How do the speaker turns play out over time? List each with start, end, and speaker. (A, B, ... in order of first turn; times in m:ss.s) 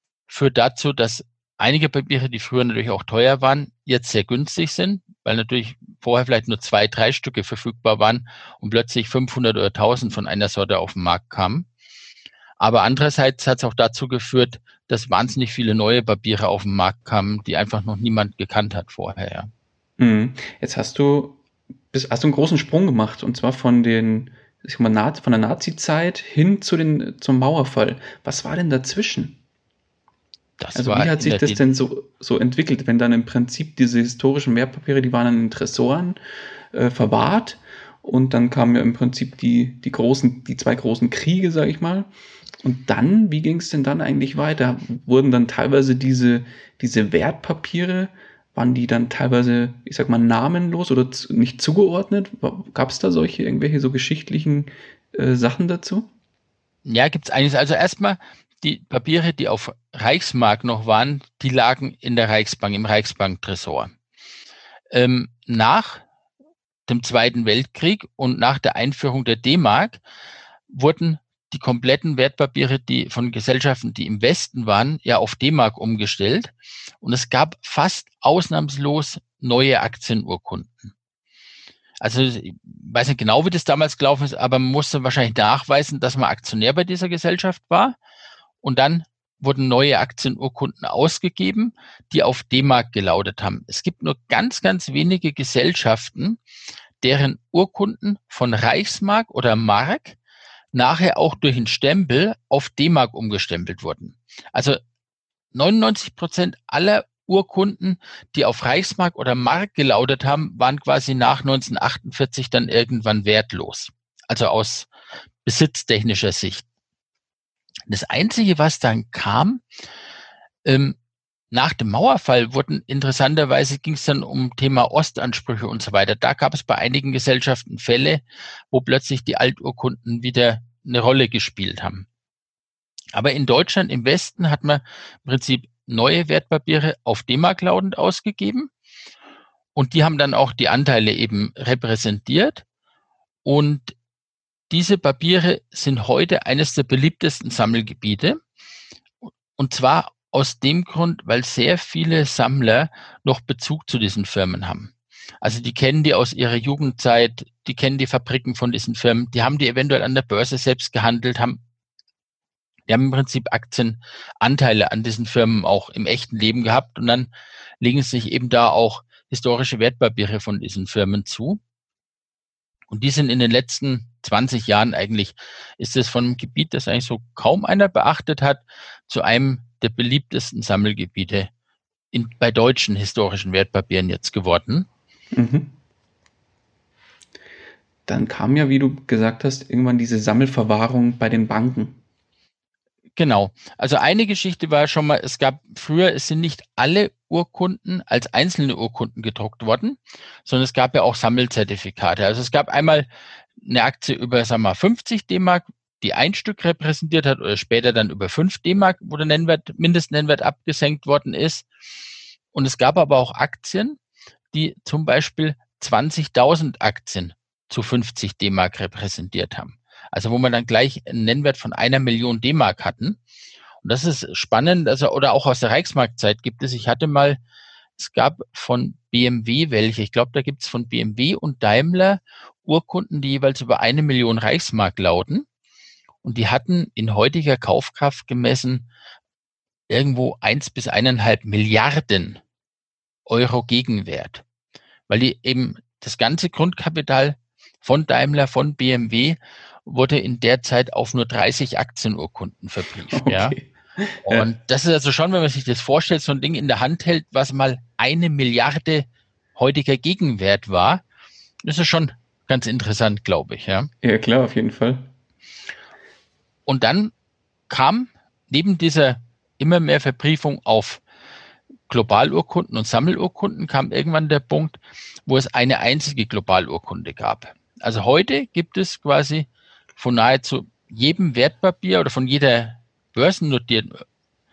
0:00.3-0:11.7 A
0:12.6-0:19.5 A
0:20.0-0:29.4 B
0:30.6-0:31.6 A
0:30.8-0:36.2 B
0:36.7-0:42.1 B
0:42.6-0:56.1 B
0:56.8-1:03.9 A
1:04.9-1:06.0 A
1:06.9-1:10.0 A
1:10.7-1:20.9 A
1:22.0-1:28.0 A
1:28.6-1:36.4 A
1:37.0-1:40.2 A
1:40.7-1:44.8 A
1:45.5-1:54.9 A
1:55.4-1:56.6 A
1:57.9-1:59.6 A
2:00.6-2:01.0 A
2:01.5-2:12.0 A
2:13.1-2:18.7 A
2:19.8-2:22.6 A
2:23.4-2:23.9 A
2:24.7-2:28.4 A
2:29.6-2:41.6 A
2:42.9-2:47.3 A
2:47.8-2:51.6 A
2:52.9-3:01.5 A
3:02.1-3:04.9 A
3:05.3-3:05.7 B
3:08.1-3:12.0 B
3:13.2-3:23.1 A
3:23.6-3:31.7 A
3:32.5-3:34.0 A
3:34.5-3:43.2 A
3:43.8-3:47.4 A
3:48.0-3:55.4 A
3:56.2-3:58.9 A
3:59.9-4:02.4 A
4:03.3-4:04.4 A
4:05.1-4:13.6 A
4:13.1-4:14.5 B
4:14.2-4:21.0 A
4:21.6-4:23.9 A
4:24.0-4:25.1 B
4:26.7-4:27.1 A
4:27.7-4:31.0 A
4:31.9-4:34.8 A
4:35.3-4:44.0 A